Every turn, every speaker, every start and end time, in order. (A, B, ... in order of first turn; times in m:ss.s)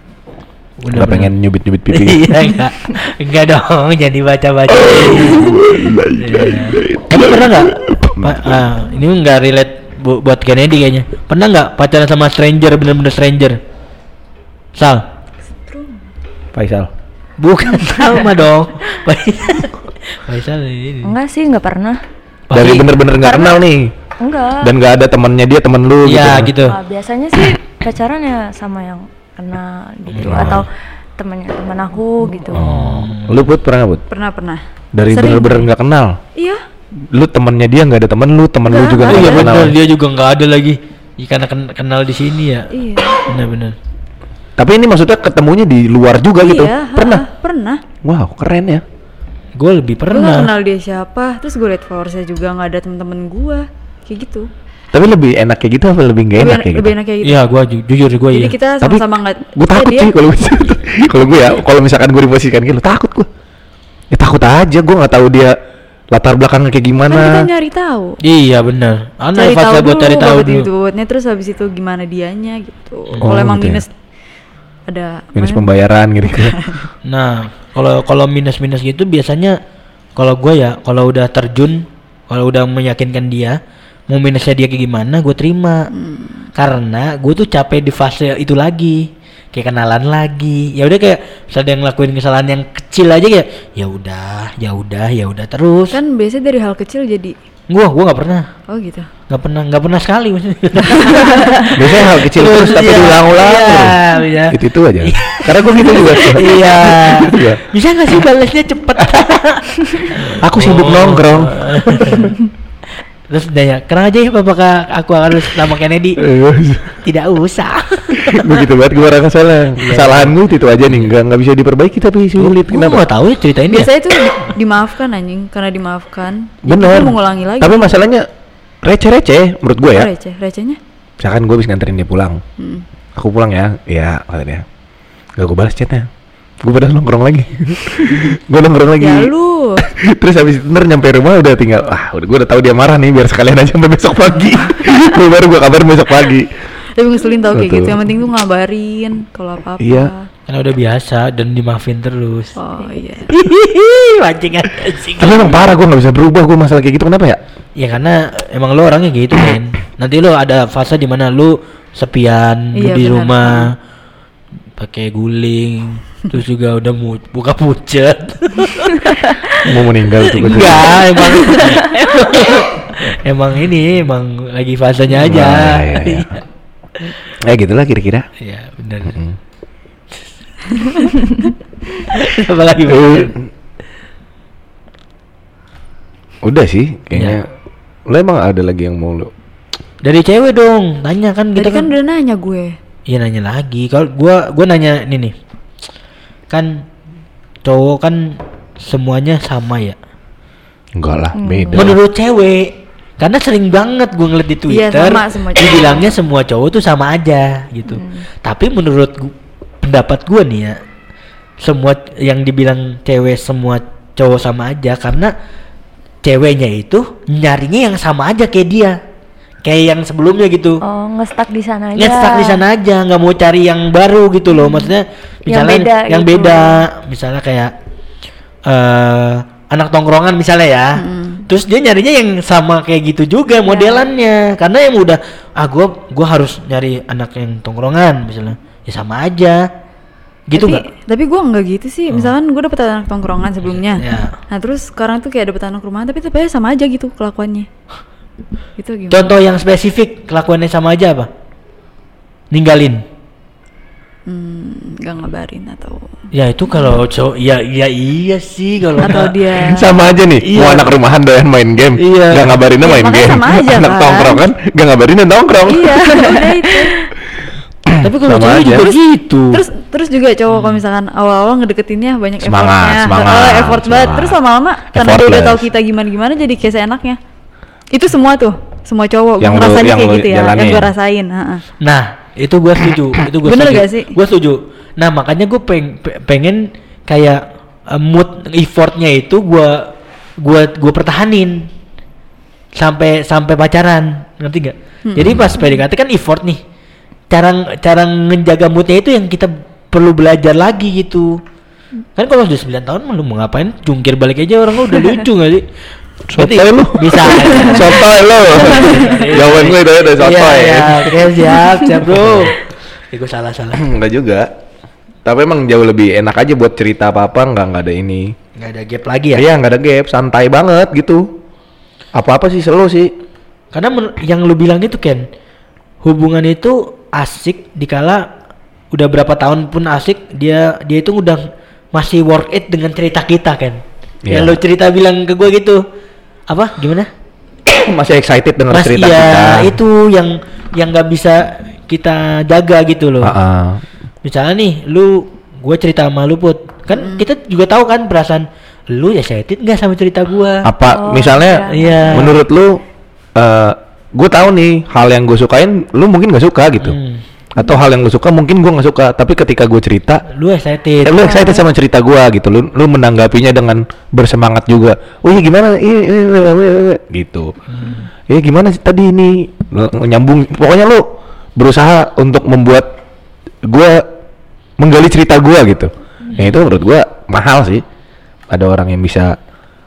0:00.8-0:01.3 A
0:00.9-0:02.4 B
0:01.9-0:13.6 A
0:04.8-0:08.6 B
0:14.8-0:15.0 A
0:15.6-0:15.9 C
0:16.5-0:16.9 B
0:17.4-0:21.1 A
0:21.0-0:22.0 D
0:22.5-0:23.0 A
0:22.5-0:23.9 B
0:23.2-0:23.6 D
0:24.2-0:24.7 D
0:24.6-0:26.5 B
0:26.0-0:26.8 A
0:26.6-0:32.6 D
0:30.1-0:30.6 A
0:30.2-0:30.6 B
0:32.5-0:34.0 B
0:32.5-0:33.5 A
0:34.1-0:35.6 C
0:35.0-0:36.2 B
0:36.4-0:36.6 C
0:37.1-0:39.8 B
0:38.7-0:39.5 C
0:39.1-0:42.7 A
0:42.7-0:43.2 C
0:43.3-0:43.8 A
0:44.6-0:47.2 B
0:46.4-0:47.8 C
0:48.0-0:48.8 B
0:49.6-0:50.5 A
0:50.1-0:54.5 C
0:54.9-0:56.9 B
0:56.4-0:57.4 C
0:57.2-0:58.6 A
0:58.3-1:00.1 C
0:59.6-1:03.3 B
1:04.1-1:05.5 B
1:06.1-1:07.5 B
1:07.1-1:08.2 C
1:08.2-1:10.7 A
1:09.4-1:13.9 C
1:13.2-1:13.8 B
1:14.9-1:15.7 C
1:15.4-1:16.6 B
1:16.4-1:16.9 C
1:17.0-1:19.6 A
1:20.2-1:23.6 A
1:24.1-1:25.9 A
1:25.9-1:26.5 C
1:26.6-1:36.0 A
1:35.9-1:37.4 C
1:37.7-1:38.5 A
1:38.7-1:39.1 C
1:39.3-1:52.3 A
1:41.1-1:41.5 C
1:41.7-1:44.0 B
1:44.5-1:47.6 B
1:50.3-1:52.4 B
1:53.3-1:56.2 A
1:56.2-1:57.0 B
1:57.0-1:58.6 A
1:58.2-2:03.0 B
1:59.8-2:01.1 A
2:02.4-2:03.9 A
2:03.7-2:08.0 C
2:06.6-2:08.3 B
2:08.8-2:10.1 B
2:09.9-2:10.8 C
2:11.2-2:12.4 B
2:12.6-2:12.8 C
2:13.2-2:14.7 B
2:15.4-2:16.1 B
2:16.6-2:19.3 B
2:19.0-2:19.8 C
2:19.9-2:26.5 B
2:27.0-2:30.3 C
2:27.5-2:28.0 B
2:29.8-2:30.1 B
2:30.5-2:32.6 A
2:32.6-2:33.3 C
2:33.3-2:35.7 A
2:35.2-2:37.4 B
2:37.8-2:43.8 A
2:42.8-2:43.7 C
2:44.8-2:49.2 A
2:49.6-2:51.1 B
2:50.3-2:56.4 A
2:55.1-2:56.4 B
2:57.4-2:58.3 B
2:58.4-2:59.2 A
2:59.1-2:59.4 B
3:00.1-3:01.1 A
3:02.1-3:03.3 A
3:02.9-3:03.4 B
3:06.4-3:07.4 B
3:07.1-3:07.4 A
3:08.1-3:09.3 B
3:10.0-3:11.9 A
3:11.6-3:12.8 C
3:13.1-3:15.4 A
3:16.5-3:16.8 A
3:17.6-3:20.0 A
3:21.0-3:22.0 B
3:21.4-3:21.9 D
3:21.7-3:30.8 A
3:24.7-3:26.0 C
3:27.9-3:28.3 D
3:31.6-3:35.3 A
3:36.2-3:39.0 A
3:39.6-3:40.8 A
3:40.8-3:42.6 D
3:42.0-3:47.7 A
3:44.5-3:44.9 D
3:45.5-3:46.9 D
3:48.7-3:59.6 A
3:51.0-3:51.5 C
3:53.7-3:54.0 D
4:00.5-4:00.9 A
4:00.6-4:07.7 C
4:04.0-4:04.3 A
4:08.8-4:09.3 C
4:09.1-4:11.3 A
4:12.5-4:13.0 A
4:14.3-4:16.1 C
4:16.3-4:19.6 A
4:19.0-4:20.0 C
4:19.6-4:26.0 B
4:20.4-4:20.9 A
4:22.0-4:22.6 A
4:22.8-4:24.4 C
4:25.6-4:27.0 C
4:26.2-4:26.6 D
4:27.9-4:29.4 B
4:28.0-4:29.3 A
4:29.5-4:37.2 C
4:30.5-4:30.8 A
4:32.4-4:34.4 B
4:34.9-4:35.6 B
4:37.9-4:41.6 C
4:39.4-4:40.9 B
4:41.8-4:51.7 A
4:43.4-4:44.1 C
4:52.8-4:56.6 A
4:55.1-4:55.5 C
4:55.2-4:55.5 B
4:57.3-5:01.4 A
5:02.2-5:05.7 A
5:06.3-5:12.5 B
5:06.3-5:13.8 A
5:13.8-5:14.5 B
5:15.2-5:18.3 B
5:18.6-5:19.4 A
5:19.3-5:21.3 B
5:22.2-5:23.1 B
5:23.7-5:25.3 A
5:26.0-5:28.3 A
5:28.9-5:35.8 A
5:34.3-5:34.6 B
5:36.5-5:37.1 A
5:37.7-5:39.7 B
5:38.7-5:43.4 A
5:43.2-5:43.8 B
5:44.2-5:50.7 A
5:47.0-5:47.2 C
5:50.6-5:52.8 B
5:50.9-5:52.3 D
5:51.7-5:52.4 A
5:53.4-5:57.0 B
5:56.8-5:57.2 A
5:57.6-6:00.2 B
6:00.3-6:01.5 A
6:01.0-6:07.5 B
6:01.2-6:01.6 D
6:07.7-6:08.1 A
6:08.3-6:11.0 B
6:11.6-6:12.9 B
6:13.6-6:14.0 B
6:14.8-6:17.8 B
6:18.5-6:19.4 B